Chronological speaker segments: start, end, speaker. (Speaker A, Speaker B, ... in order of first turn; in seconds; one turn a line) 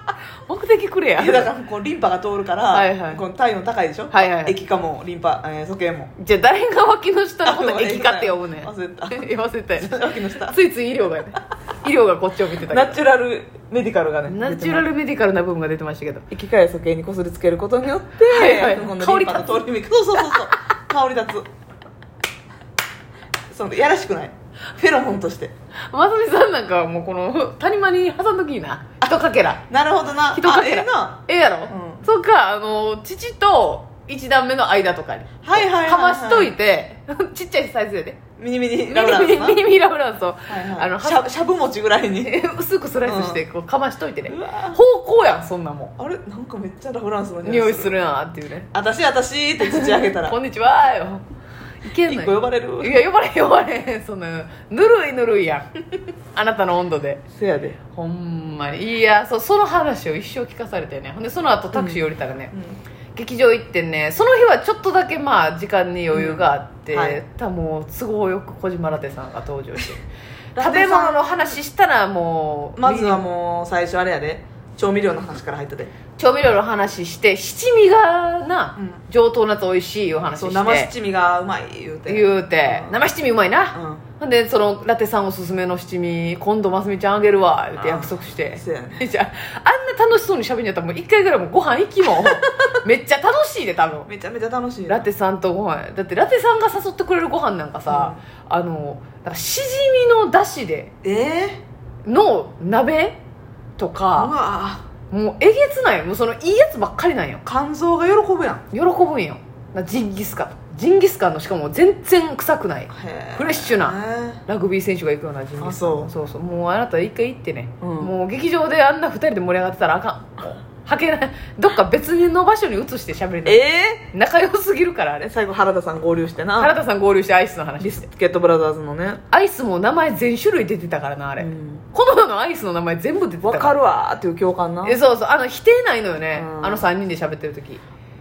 Speaker A: 0.5-1.5
Speaker B: 1.2-6.1
Speaker A: 2.7-3.2
Speaker A: 4.1-4.6
Speaker A: 6.2-13.0
Speaker B: 7.4-10.6
Speaker B: 12.6-14.9
Speaker A: 14.3-16.2
Speaker B: 16.3-21.5
Speaker A: 18.3-19.6
Speaker B: 23.5-25.5
Speaker A: 25.9-29.6
Speaker B: 29.0-32.1
Speaker A: 30.3-38.2
Speaker B: 35.4-36.5
Speaker B: 38.4-39.6
Speaker A: 38.9-41.3
Speaker B: 40.5-42.4
Speaker A: 42.2-45.9
Speaker B: 43.0-43.4
Speaker B: 44.3-44.8
Speaker B: 46.0-48.0
Speaker A: 47.4-48.7
Speaker B: 48.7-50.4
Speaker A: 49.6-51.2
Speaker A: 51.8-55.7
Speaker B: 52.0-53.0
Speaker A: 56.3-57.2
Speaker B: 57.3-57.8
Speaker A: 57.9-62.5
Speaker B: 61.7-62.8
Speaker A: 63.1-70.0
Speaker B: 66.1-67.2
Speaker B: 70.5-71.6
Speaker A: 70.6-73.2
Speaker B: 72.8-75.9
Speaker A: 76.2-80.9
Speaker B: 80.3-83.0
Speaker A: 82.1-94.1
Speaker B: 83.7-84.0
Speaker B: 87.8-89.1
Speaker B: 92.1-92.5
Speaker B: 94.1-95.0
Speaker A: 94.9-100.9
Speaker B: 97.9-98.2
Speaker B: 101.0-101.6
Speaker A: 102.0-103.2
Speaker A: 103.8-104.3
Speaker B: 104.2-104.8
Speaker A: 105.1-107.4
Speaker B: 107.4-108.6
Speaker A: 108.7-125.3
Speaker B: 112.9-114.4
Speaker B: 115.6-116.1
Speaker B: 117.8-118.1
Speaker B: 123.5-124.1
Speaker B: 125.2-126.8
Speaker A: 126.6-128.1
Speaker B: 127.8-129.2
Speaker A: 129.3-133.7
Speaker B: 131.4-131.8
Speaker B: 133.4-135.0
Speaker A: 134.8-137.8
Speaker B: 136.3-136.9